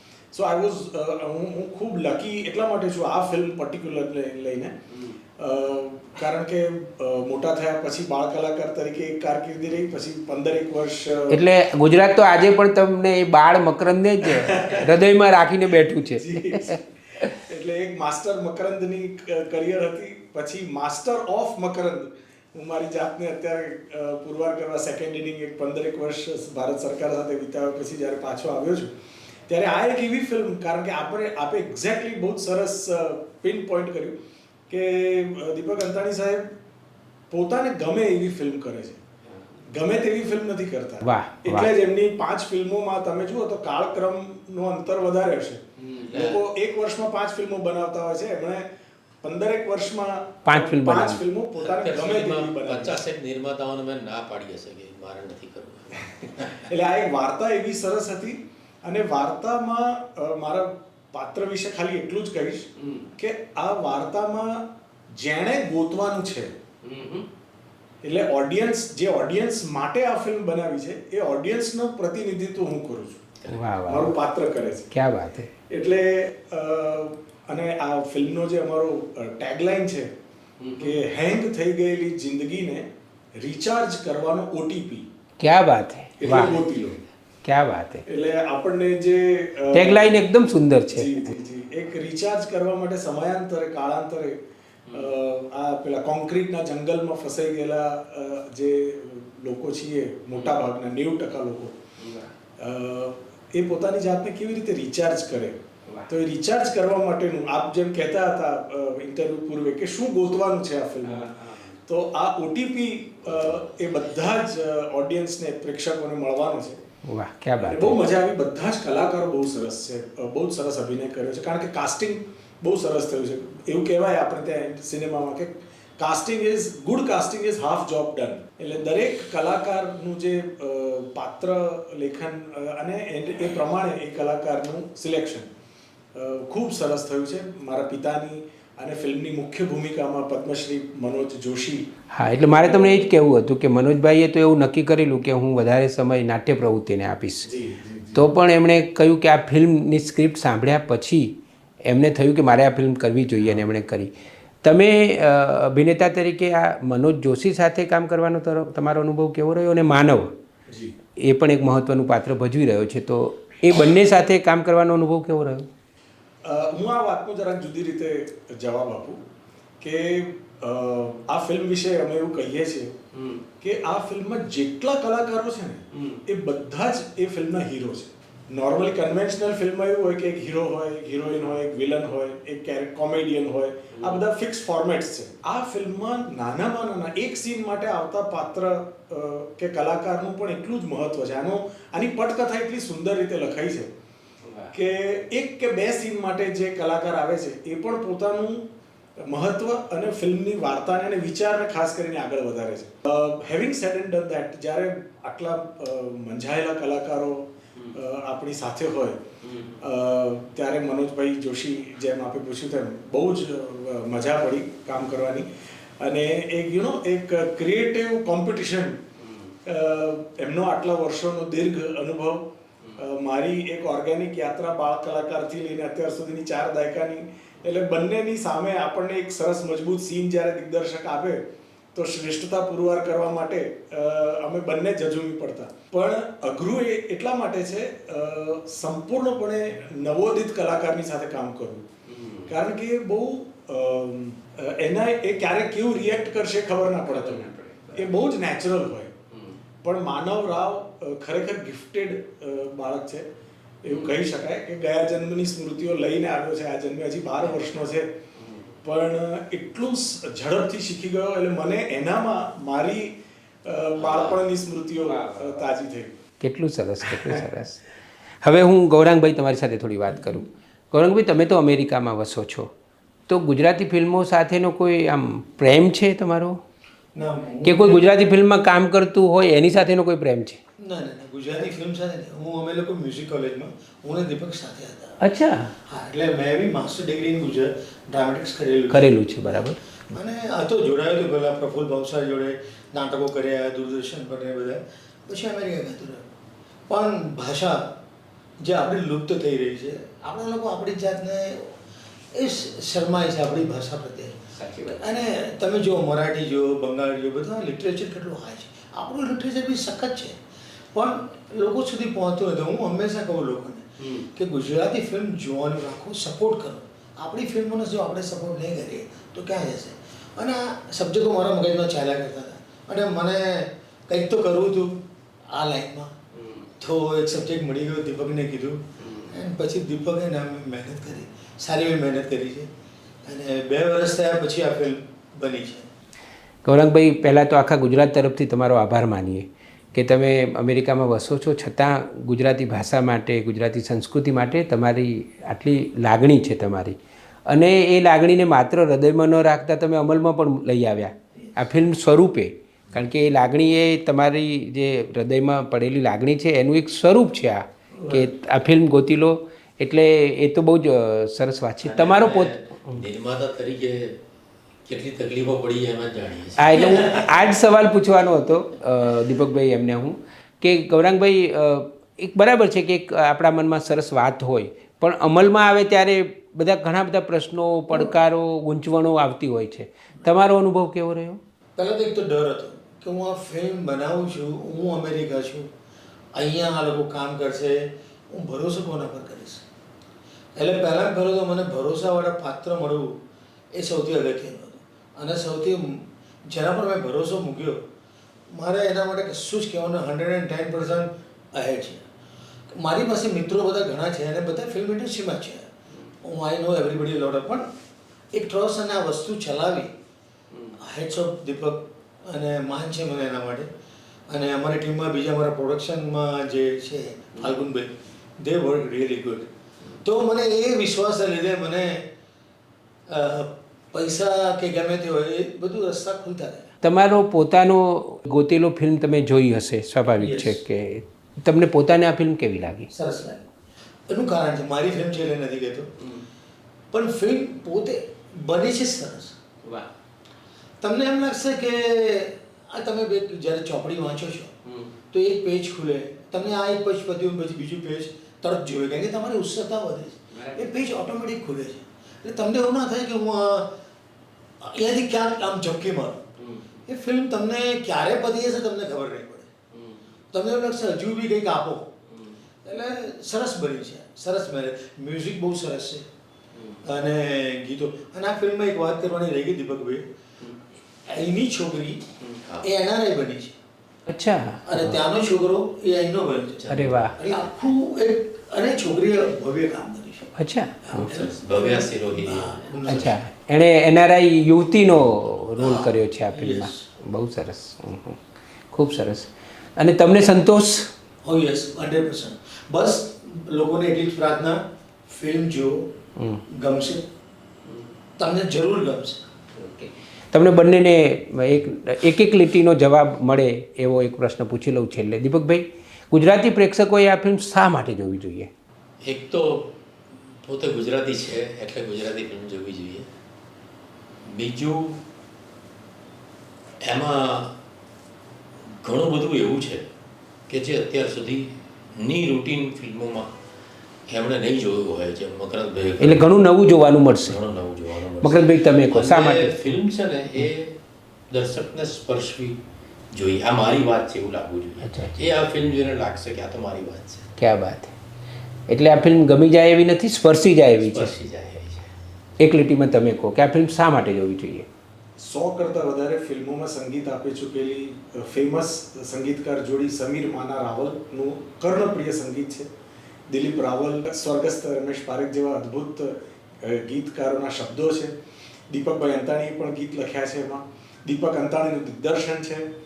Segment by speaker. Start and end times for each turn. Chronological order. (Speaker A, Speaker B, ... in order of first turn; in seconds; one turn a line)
Speaker A: 0.3-4.7
Speaker A: 5.4-11.4
Speaker B: 11.3-17.4
Speaker A: 14.2-14.9
Speaker A: 16.2-28.9
Speaker A: 29.5-34.1
Speaker A: 34.7-36.5
Speaker A: 37.3-39.0
Speaker A: 39.7-48.7
Speaker B: 41.0-41.7
Speaker B: 45.8-46.1
Speaker C: 46.1-46.4
Speaker A: 49.2-53.0
Speaker B: 50.5-51.2
Speaker C: 51.6-56.6
Speaker A: 56.6-64.6
Speaker B: 62.8-63.1
Speaker A: 65.2-66.6
Speaker B: 66.8-67.2
Speaker A: 68.0-73.2
Speaker B: 73.5-74.1
Speaker A: 73.9-74.9
Speaker B: 74.9-75.5
Speaker A: 75.7-80.1
Speaker B: 80.6-80.9
Speaker A: 80.8-82.9
Speaker A: 83.4-85.1
Speaker B: 85.4-86.6
Speaker A: 86.2-87.0
Speaker B: 87.4-88.0
Speaker A: 88.1-90.2
Speaker B: 89.7-91.3
Speaker A: 90.9-94.4
Speaker A: 94.9-101.8
Speaker B: 102.0-102.3
Speaker A: 102.6-105.6
Speaker A: 106.1-111.4
Speaker B: 111.0-111.8
Speaker A: 111.9-116.8
Speaker C: 113.3-114.0
Speaker B: 117.1-118.0
Speaker A: 117.6-135.5
Speaker A: 136.2-141.9
Speaker B: 142.1-147.5
Speaker A: 142.6-143.1
Speaker A: 147.5-148.3
Speaker B: 148.2-154.1
Speaker B: 154.6-160.3
Speaker A: 160.7-160.9
Speaker B: 161.2-165.7
Speaker A: 166.4-169.2
Speaker A: 169.8-172.9
Speaker B: 173.1-173.4
Speaker A: 173.6-193.9
Speaker B: 175.9-176.2
Speaker B: 183.9-184.2
Speaker B: 194.5-194.7
Speaker A: 194.7-198.6
Speaker A: 199.3-209.2
Speaker B: 209.4-209.8
Speaker A: 209.8-215.5
Speaker A: 216.0-219.0
Speaker A: 219.7-222.5
Speaker A: 223.0-231.4
Speaker A: 231.9-241.8
Speaker B: 242.1-242.6
Speaker A: 242.5-249.1
Speaker B: 247.1-248.1
Speaker A: 249.8-253.2
Speaker A: 253.8-258.1
Speaker B: 253.9-254.2
Speaker B: 258.4-258.6
Speaker A: 258.8-263.1
Speaker A: 263.6-266.2
Speaker C: 264.0-264.5
Speaker B: 265.0-265.6
Speaker B: 266.4-267.9
Speaker A: 267.0-267.4
Speaker B: 268.4-272.7
Speaker B: 273.3-276.6
Speaker D: 277.1-278.1
Speaker B: 277.6-280.6
Speaker D: 280.8-285.2
Speaker B: 285.2-285.7
Speaker D: 285.9-289.1
Speaker B: 288.9-289.8
Speaker D: 290.1-296.2
Speaker D: 296.9-297.8
Speaker D: 298.6-301.8
Speaker D: 302.3-310.4
Speaker B: 304.6-305.1
Speaker D: 310.9-324.9
Speaker B: 314.0-314.3
Speaker D: 325.5-326.1
Speaker B: 326.4-326.6
Speaker D: 326.8-332.7
Speaker D: 333.2-335.9
Speaker B: 336.6-347.0
Speaker B: 347.5-363.0
Speaker D: 358.0-358.3
Speaker C: 361.8-364.2
Speaker C: 364.9-367.0
Speaker B: 366.6-381.4
Speaker D: 366.8-367.3
Speaker D: 381.8-385.7
Speaker D: 386.3-389.6
Speaker D: 390.6-393.2
Speaker D: 393.7-397.8
Speaker D: 398.5-402.0
Speaker D: 402.8-405.7
Speaker D: 406.2-407.6
Speaker D: 408.3-409.9
Speaker B: 410.5-410.8
Speaker D: 410.8-413.7
Speaker D: 414.3-422.1
Speaker D: 423.1-426.7
Speaker B: 426.8-432.9
Speaker D: 430.2-430.6
Speaker D: 432.9-433.5
Speaker D: 434.1-435.9
Speaker D: 436.9-439.4
Speaker D: 440.8-444.5
Speaker D: 445.1-453.7
Speaker B: 450.3-450.7
Speaker D: 454.6-456.2
Speaker D: 456.9-459.5
Speaker B: 459.7-460.0
Speaker D: 460.3-461.9
Speaker D: 462.6-466.1
Speaker D: 466.8-470.1
Speaker D: 471.1-472.1
Speaker C: 472.4-472.7
Speaker D: 472.6-473.6
Speaker B: 474.1-474.9
Speaker D: 474.7-480.3
Speaker C: 476.6-477.2
Speaker B: 476.7-477.2
Speaker B: 480.4-481.1
Speaker D: 480.9-483.2
Speaker C: 481.0-483.2
Speaker B: 482.9-488.2
Speaker D: 485.6-486.9
Speaker B: 488.7-490.9
Speaker D: 491.2-495.9
Speaker B: 496.2-496.4
Speaker D: 496.5-497.1
Speaker D: 498.2-499.2
Speaker B: 499.6-508.5
Speaker C: 509.0-509.7
Speaker C: 510.5-513.1
Speaker C: 514.3-515.0
Speaker C: 516.8-517.6
Speaker C: 518.8-519.9
Speaker C: 520.5-523.3
Speaker C: 524.1-526.2
Speaker B: 526.0-527.4
Speaker C: 527.2-530.8
Speaker B: 528.2-529.6
Speaker C: 531.3-532.6
Speaker C: 533.1-537.3
Speaker B: 534.8-535.2
Speaker B: 537.4-537.9
Speaker B: 538.7-541.1
Speaker C: 540.8-541.9
Speaker B: 542.4-544.7
Speaker A: 545.2-552.7
Speaker A: 553.3-558.1
Speaker A: 558.7-562.6